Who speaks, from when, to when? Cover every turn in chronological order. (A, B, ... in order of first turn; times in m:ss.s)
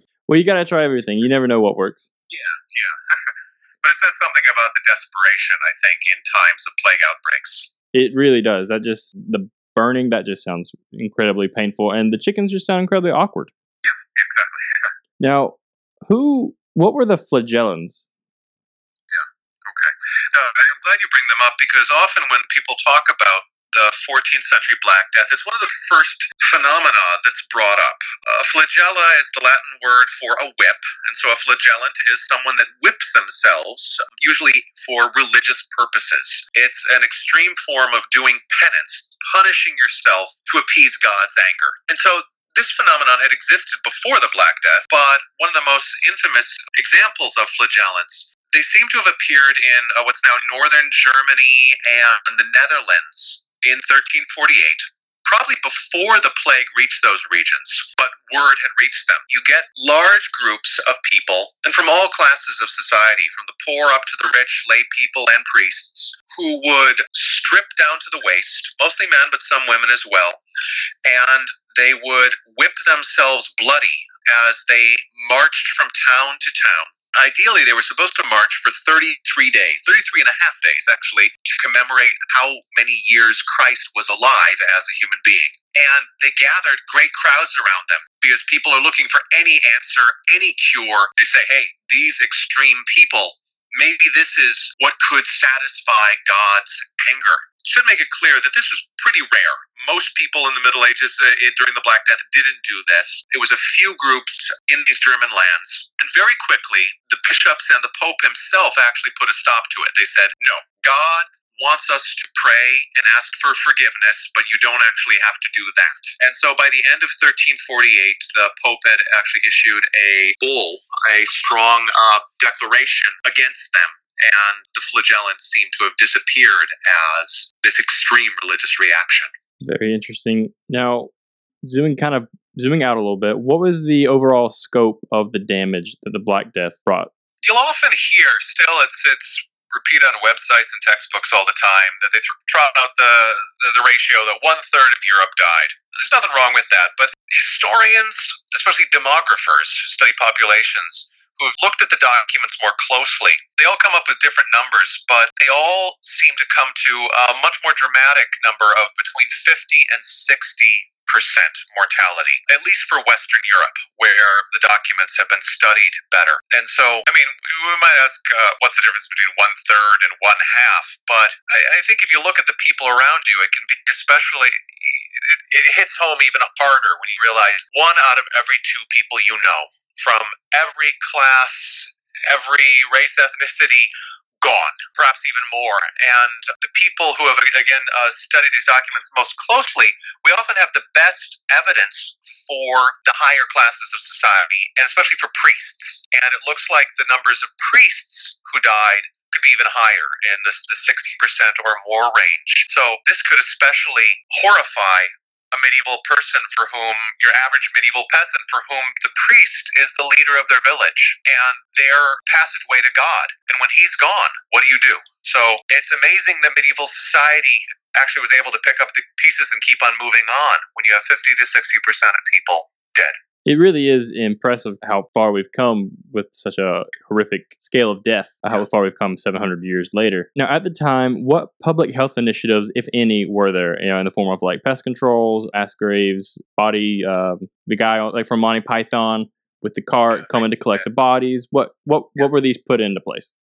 0:00.3-0:02.1 A
0:02.3-0:07.7 B
0:07.9-0:13.5 A
0:13.8-0:14.9 B
0:15.2-0:18.0 A
0:19.1-1:10.4 B
1:11.0-2:09.3 B
2:09.6-2:11.1 A
2:11.6-2:17.1 A
2:17.4-3:03.9 B
3:04.4-3:43.2 B
3:43.4-4:03.3 A
4:00.1-4:00.9 B